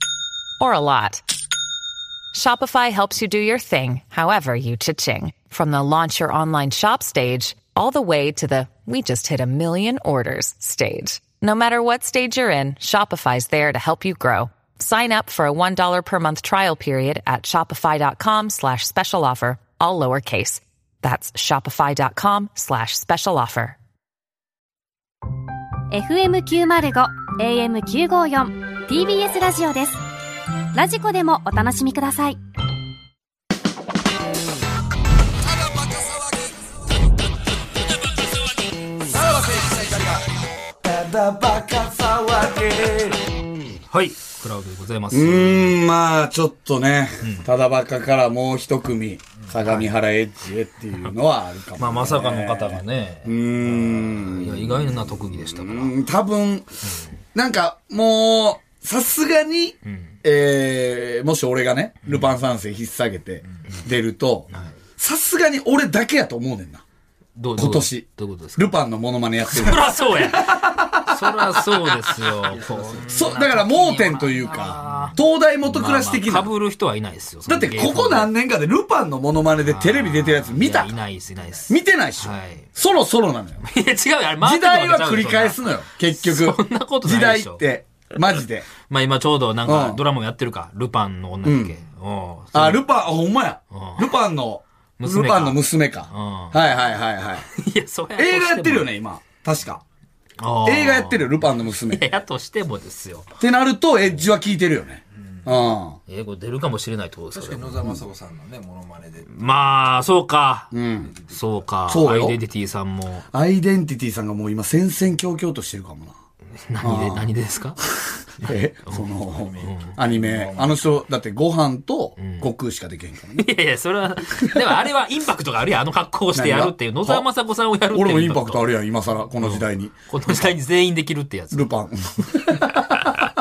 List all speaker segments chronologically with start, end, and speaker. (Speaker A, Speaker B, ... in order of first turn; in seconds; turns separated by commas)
Speaker A: 0.6-1.2, Speaker A: 2.3-23.8, Speaker B: 25.9-30.0, Speaker B: 30.8-32.4, Speaker C: 35.9-36.1, Speaker C: 39.1-40.3, Speaker C: 40.8-43.5, Speaker D: 43.9-45.8, Speaker C: 45.1-56.7, Speaker D: 47.2-47.5, Speaker D: 49.6-49.9, Speaker D: 51.8-55.9, Speaker C: 57.4-66.8, Speaker D: 59.9-60.1, Speaker D: 62.1-62.3, Speaker D: 67.4-68.8, Speaker C: 67.6-72.1, Speaker D: 69.5-78.3, Speaker E: 72.5-73.2, Speaker C: 73.0-76.5, Speaker C: 77.5-81.0, Speaker D: 79.6-82.7, Speaker C: 81.7-83.6, Speaker D: 83.6-87.6, Speaker C: 84.4-88.7, Speaker D: 88.8-92.9, Speaker C: 89.6-90.0, Speaker C: 91.4-91.8, Speaker C: 92.5-97.5, Speaker D: 93.7-94.1, Speaker D: 95.0-96.6, Speaker D: 97.5-98.9, Speaker C: 98.2-99.8, Speaker D: 100.4-103.3, Speaker C: 100.7-102.1, Speaker C: 103.4-106.0, Speaker D: 106.1-107.9, Speaker E: 107.3-109.5, Speaker D: 109.3-110.8, Speaker C: 110.7-111.1, Speaker E: 111.0-111.7, Speaker D: 111.3-113.3, Speaker C: 111.9-112.4, Speaker C: 113.3-116.1, Speaker D: 116.7-117.8, Speaker C: 116.8-117.3, Speaker C: 118.4-123.5, Speaker D: 119.6-120.0, Speaker E: 120.1-120.7, Speaker D: 122.2-122.5, Speaker D: 123.4-128.8, Speaker C: 126.3-127.3, Speaker C: 127.9-129.9, Speaker D: 129.3-131.7, Speaker C: 131.5-133.1